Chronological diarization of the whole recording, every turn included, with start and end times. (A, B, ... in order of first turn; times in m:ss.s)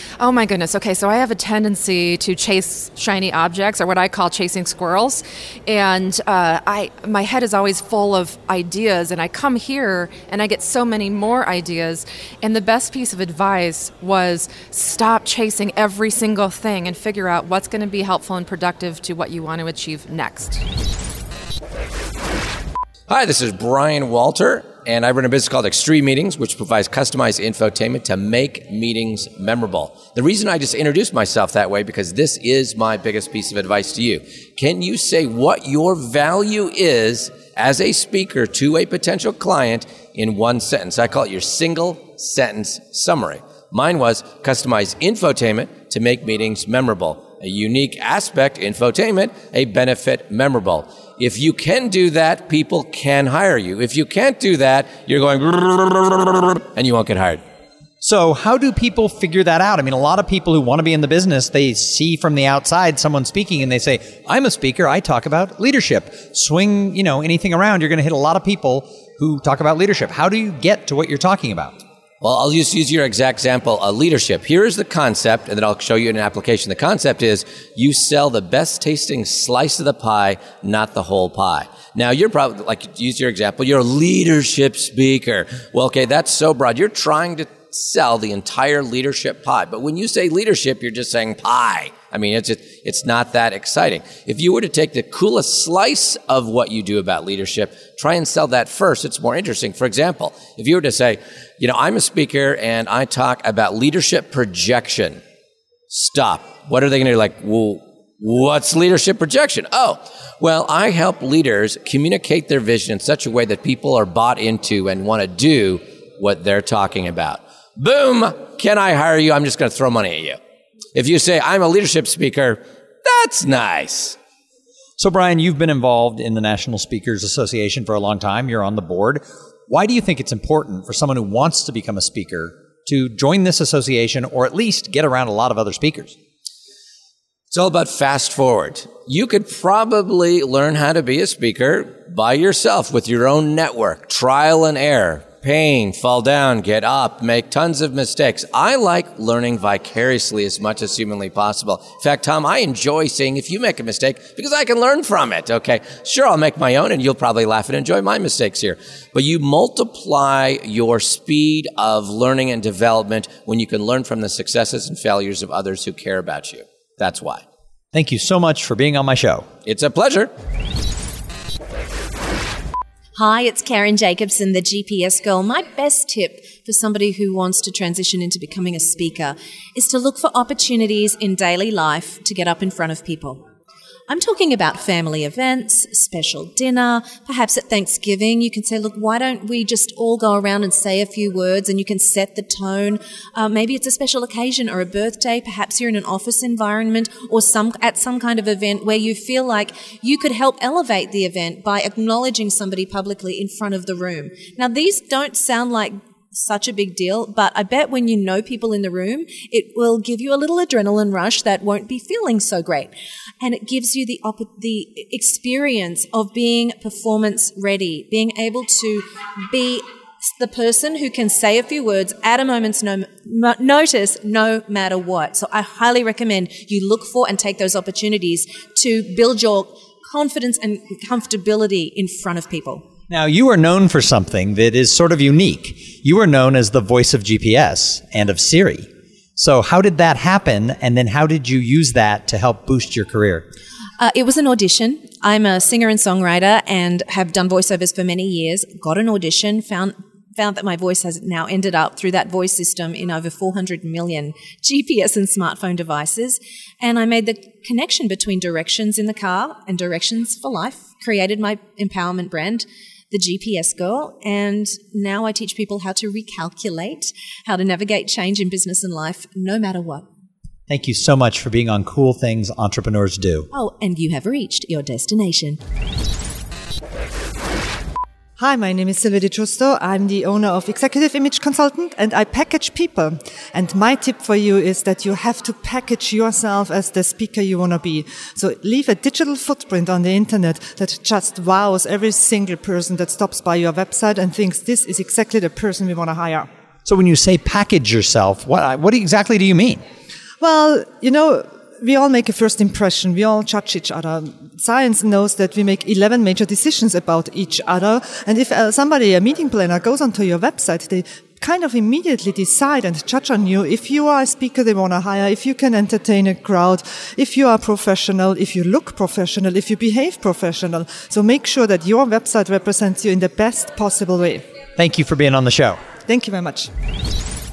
0:00.2-0:20.6 A
0:23.1-0:57.4 B
0:58.0-1:11.8 C
1:12.2-1:45.2 B
1:45.9-2:00.4 B
2:01.0-2:04.2 B
2:05.0-2:16.2 C
2:17.5-2:47.4 B
2:47.9-2:49.5 C
2:49.6-2:50.3 B
2:53.2-3:03.4 D
3:04.1-3:52.9 D
3:53.1-4:03.5 C
4:04.0-4:30.1 D
4:30.7-4:33.5 C
4:33.5-4:35.6 D
4:38.4-4:56.5 E
4:56.9-4:59.8 C
5:00.4-5:24.4 E
5:24.8-5:25.8 C
5:26.1-5:26.7 E